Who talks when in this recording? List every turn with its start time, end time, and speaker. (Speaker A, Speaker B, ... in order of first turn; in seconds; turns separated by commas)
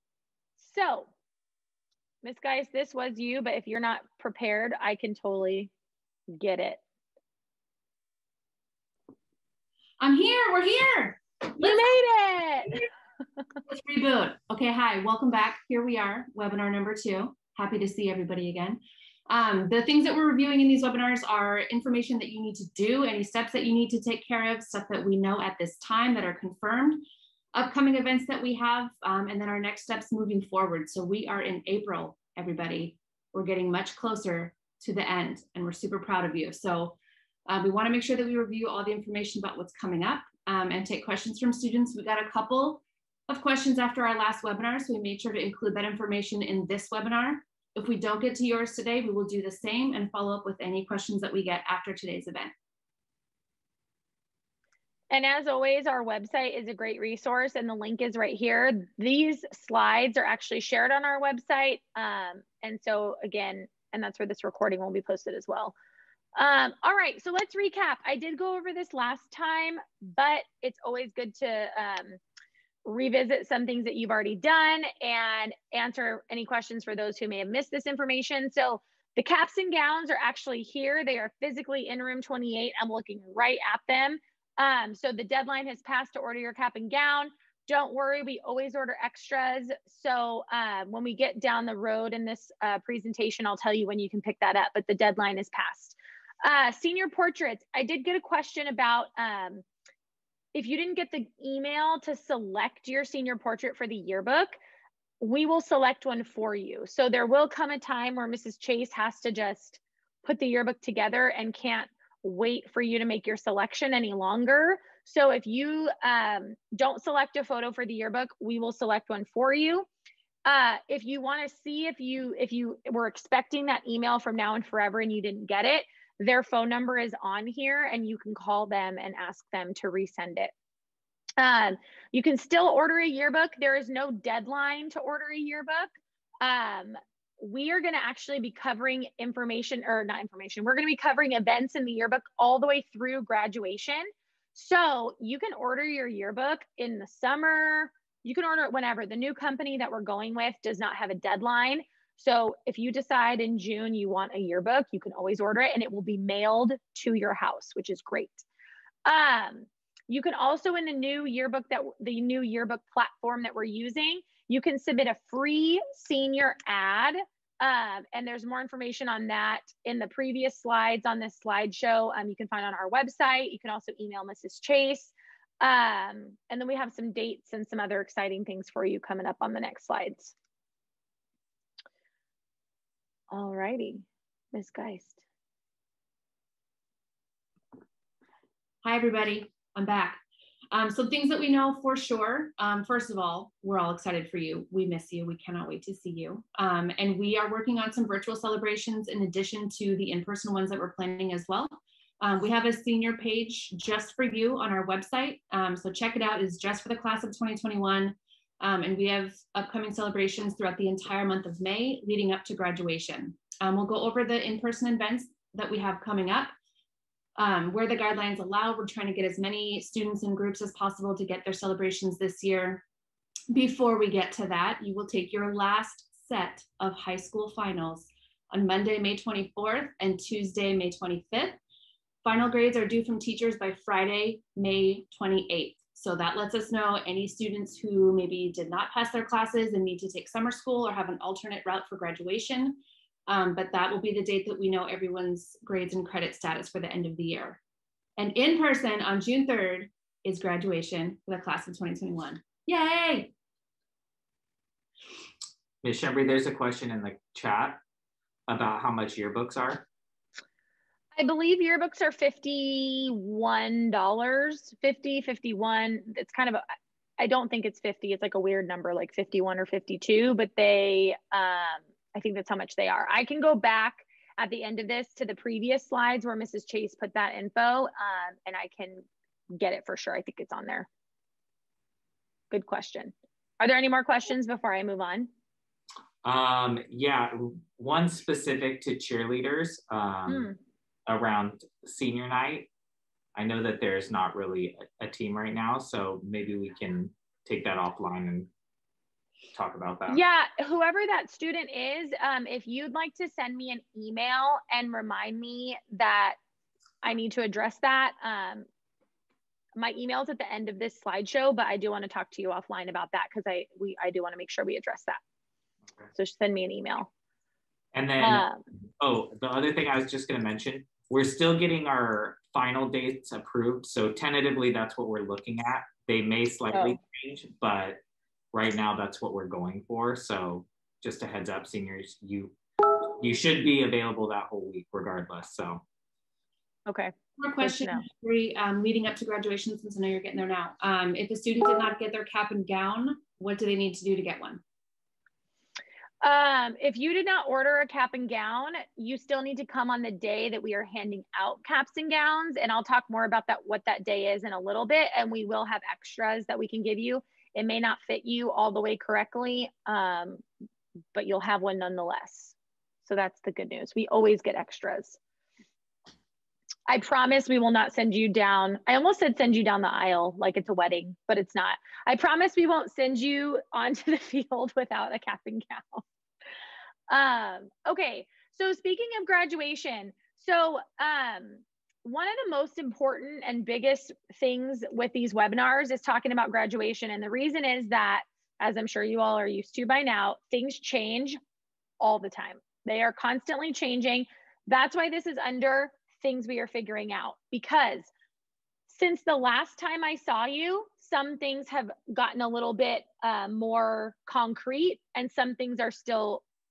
Speaker A: 0.6-1.1, Speaker A: 2.2-5.7, Speaker A: 6.3-6.8, Speaker B: 10.0-12.0, Speaker A: 11.6-12.8, Speaker B: 13.7-27.0, Speaker B: 27.5-52.5, Speaker A: 55.1-65.7, Speaker A: 66.3-72.2, Speaker A: 72.8-99.6, Speaker A: 100.5-104.6, Speaker A: 105.2-119.9, Speaker A: 120.5-130.5, Speaker A: 131.4-135.9, Speaker A: 136.4-158.4, Speaker A: 159.1-180.3, Speaker A: 183.3-185.2, Speaker B: 188.8-216.5, Speaker B: 217.3-222.8, Speaker B: 223.5-231.6, Speaker B: 232.2-247.6, Speaker B: 248.2-253.3, Speaker C: 255.8-257.8, Speaker C: 258.5-259.9, Speaker A: 261.1-266.6, Speaker A: 267.2-280.9, Speaker A: 282.5-285.3, Speaker C: 286.2-290.5, Speaker A: 290.3-290.6, Speaker C: 291.1-292.7, Speaker C: 293.3-298.5, Speaker C: 299.5-300.2, Speaker A: 300.1-306.4, Speaker A: 307.0-308.6, Speaker A: 309.8-315.2, Speaker A: 316.1-317.1, Speaker C: 317.9-318.4, Speaker A: 318.2-318.6, Speaker C: 319.0-328.0, Speaker A: 326.7-327.0, Speaker C: 328.5-335.8, Speaker A: 336.9-338.0, Speaker B: 337.4-344.6, Speaker A: 346.2-360.4, Speaker A: 361.1-362.5, Speaker A: 363.0-365.2, Speaker A: 366.9-376.0, Speaker A: 377.1-391.4, Speaker A: 392.0-398.1, Speaker A: 398.9-406.4